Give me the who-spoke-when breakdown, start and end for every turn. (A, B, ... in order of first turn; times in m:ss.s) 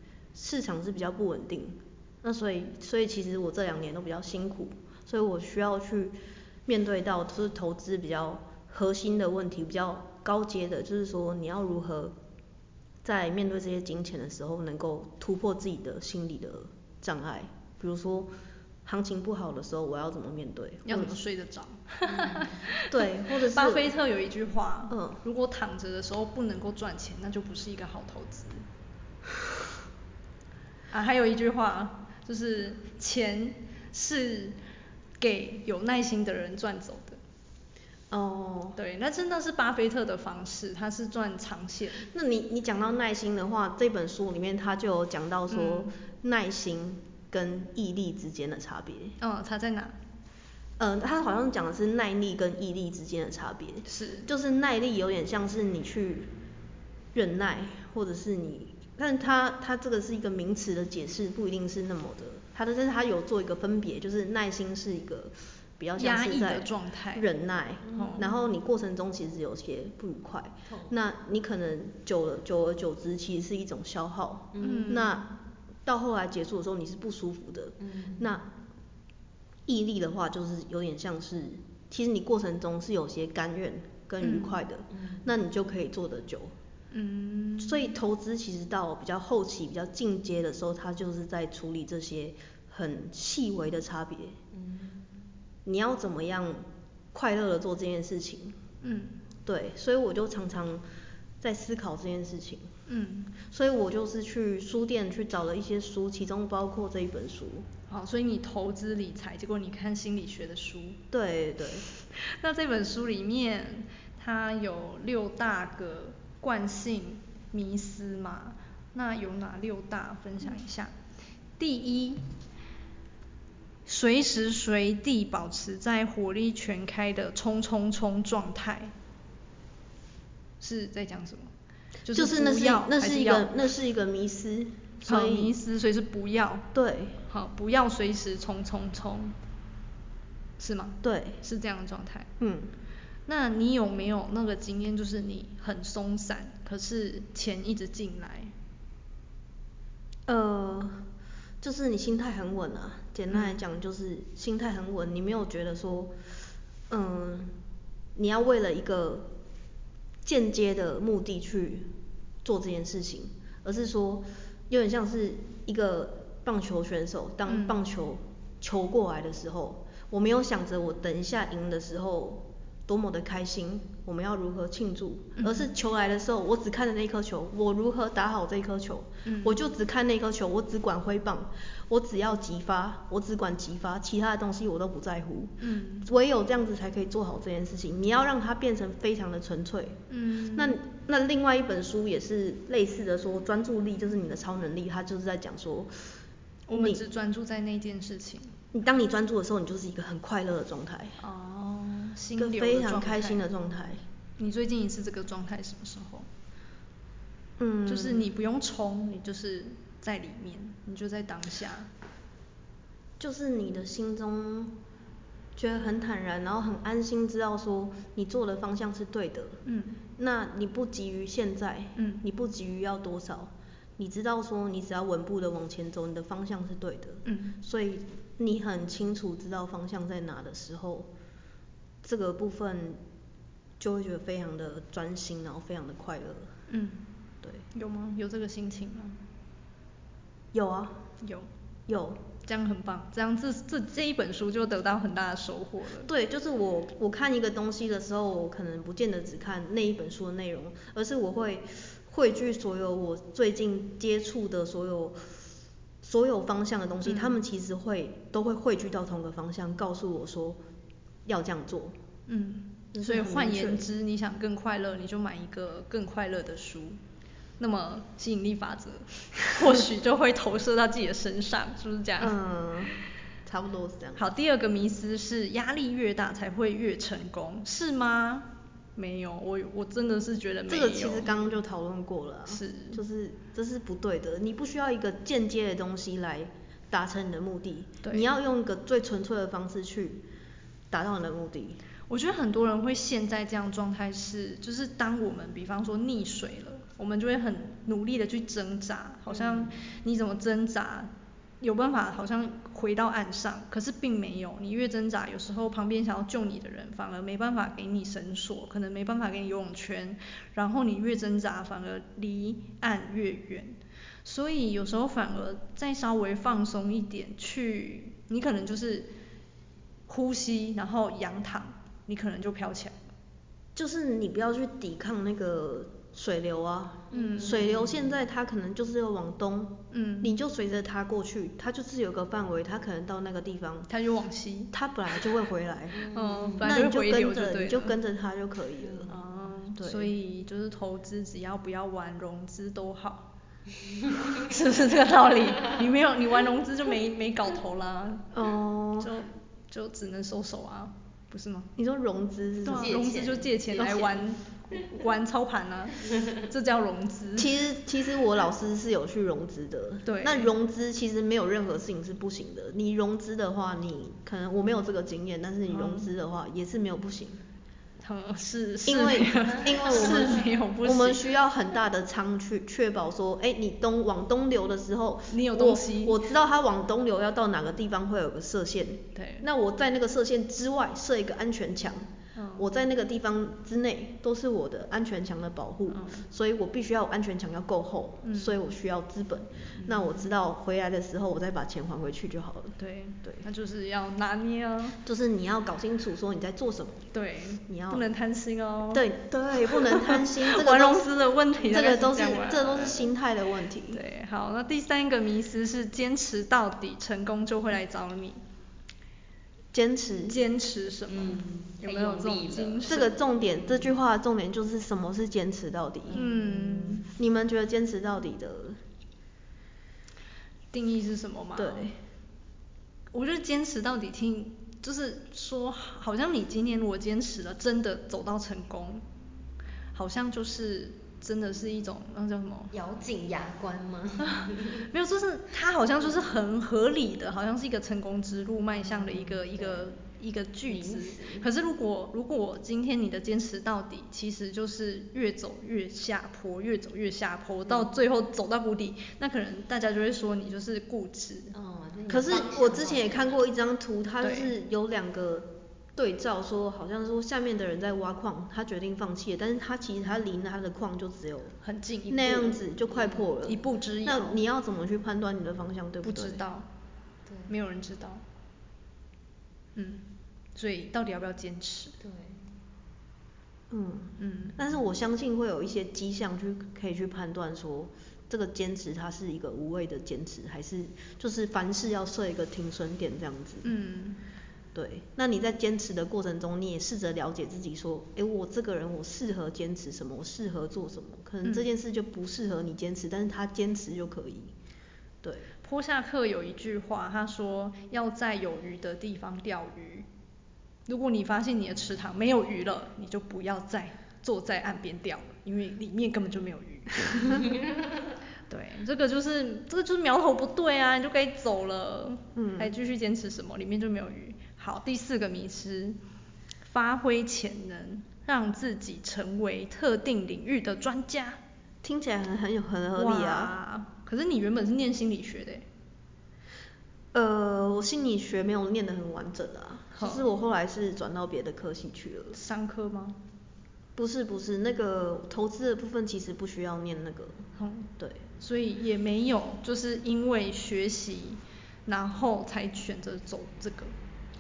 0:00.4-0:12.2 A
0:13.0-0:18.3 A
0:18.8-0:21.2 A
0:20.9-0:28.6 B
0:22.8-0:23.9 A
0:24.9-0:25.2 A
0:30.9-0:34.6 B
0:35.2-0:37.2 B
0:38.1-0:38.8 A
0:38.8-0:42.1 B
0:42.1-0:49.2 A
0:45.5-0:45.9 B
0:49.2-0:50.0 B
0:50.8-0:56.3 A
0:53.9-0:54.3 B
0:57.1-1:18.5 A
1:06.0-1:07.3 B
1:07.9-1:08.3 C
1:07.9-1:08.3 B
1:10.7-1:11.0 C
1:14.5-1:15.0 C
1:14.6-1:15.2 B
1:17.8-1:18.3 C
1:19.7-1:26.5 A
1:24.2-1:24.6 B
1:24.9-1:25.3 C
1:26.9-1:27.9 B
1:27.6-1:34.4 A
1:34.5-1:35.1 C
1:35.6-1:38.6 A
1:38.8-1:39.2 B
1:39.5-1:40.8 A
1:41.4-1:42.7 A
1:42.9-1:43.3 B
1:43.4-1:47.7 A
1:47.9-1:51.0 B
1:51.1-1:51.8 A
1:52.1-2:00.9 B
2:01.6-2:02.3 B
2:03.9-2:08.9 B
2:10.6-2:11.5 B
2:12.0-2:13.5 B
2:12.1-2:15.6 A
2:15.0-2:16.7 B
2:16.7-2:17.2 A
2:17.3-2:19.4 B
2:20.6-2:22.3 B
2:21.0-2:21.4 A
2:22.4-2:22.7 A
2:23.3-2:28.5 B
2:30.3-2:31.1 A
2:31.6-2:36.2 A
2:33.3-2:33.6 B
2:36.9-2:37.6 A
2:38.2-2:39.3 A
2:40.2-2:41.9 A
2:42.4-3:16.1 A
2:47.5-2:47.8 B
2:55.4-2:55.7 B
2:59.2-2:59.6 B
3:05.6-3:06.1 B
3:10.1-3:10.8 B
3:16.7-3:18.6 B
3:16.7-3:17.0 A
3:18.7-3:21.2 A
3:21.2-3:23.4 B
3:22.4-3:24.0 A
3:24.4-3:26.3 B
3:27.6-3:28.3 A
3:27.9-3:31.9 B
3:33.2-3:34.8 A
3:35.6-3:39.6 A
3:39.7-3:40.0 B
3:40.2-3:51.1 A
3:42.0-3:42.2 B
3:47.2-3:47.6 B
3:52.0-3:53.0 A
3:53.8-3:56.5 A
3:56.7-3:57.1 B
3:57.7-3:59.2 B
4:00.5-4:01.1 A
4:01.2-4:01.5 B
4:01.9-4:02.2 A
4:02.4-4:06.1 B
4:06.1-4:15.2 A
4:16.0-4:20.6 A
4:17.0-4:17.4 B
4:21.3-4:22.0 A
4:22.3-4:27.0 B
4:22.9-4:23.8 A
4:27.6-4:32.4 B
4:32.2-4:34.2 A
4:34.2-4:41.3 B
4:40.7-4:50.3 A
4:42.5-4:43.0 B
4:48.0-4:48.3 B
4:50.9-4:51.8 A
4:52.1-5:19.1 B
4:59.3-4:59.7 A
5:20.1-5:23.0 B
5:23.8-5:33.9 A
5:27.1-5:28.1 C
5:27.1-5:27.7 B
5:29.9-5:30.3 B
5:33.9-5:34.7 B
5:34.7-5:36.0 A
5:36.0-5:36.7 C
5:36.1-5:38.0 B
5:36.6-5:39.2 A
5:39.1-5:43.3 B
5:39.8-5:40.1 A
5:44.3-5:48.3 B
5:48.3-5:49.1 A
5:49.0-5:51.7 B
5:51.8-5:53.1 A
5:52.6-5:57.5 B
5:52.7-5:54.2 C
5:57.4-6:07.4 A
6:00.0-6:00.5 B
6:05.7-6:06.1 B
6:08.0-6:11.3 B
6:08.8-6:33.4 A
6:15.3-6:16.2 B
6:19.2-6:19.5 B
6:22.4-6:22.7 B
6:25.9-6:26.3 B
6:28.2-6:28.6 B
6:29.8-6:30.2 B
6:32.8-6:35.0 B
6:35.0-6:37.1 A
6:37.1-6:43.0 B
6:37.7-6:38.1 A
6:38.9-6:41.1 A
6:41.6-6:44.0 A
6:43.9-6:48.4 B
6:49.7-6:50.4 A
6:50.3-6:53.1 B
6:51.1-6:53.9 C
6:52.8-6:56.3 A
6:56.1-6:56.4 C
6:56.1-6:57.1 B
6:57.0-6:58.8 A
7:00.7-7:01.9 B
7:01.6-7:02.0 A
7:03.1-7:09.0 B
7:09.9-7:12.7 B
7:12.7-7:14.9 C
7:14.2-7:31.5 B
7:18.8-7:19.8 C
7:20.7-7:21.5 C
7:31.5-7:33.4 C
7:32.1-7:41.6 A
7:34.2-7:34.5 B
7:41.6-7:42.6 B
7:42.1-7:46.4 A
7:42.9-7:43.3 C
7:43.4-7:44.4 B
7:46.0-7:46.7 B
7:47.3-7:47.5 C
7:47.5-7:48.2 B
7:49.8-7:52.0 B
7:52.0-7:52.5 C
7:53.7-8:03.7 A
7:54.2-7:54.6 B
8:03.6-8:04.2 B
8:04.8-8:14.5 A
8:15.6-8:20.1 B
8:20.9-8:27.5 B
8:28.5-8:36.0 B
8:32.4-8:32.8 A
8:36.6-8:41.4 B
8:41.8-8:43.5 A
8:43.0-8:45.7 B
8:47.1-8:52.4 A
8:50.0-8:50.2 B
8:52.3-8:53.2 B
8:54.0-8:57.4 A
8:57.6-9:03.9 B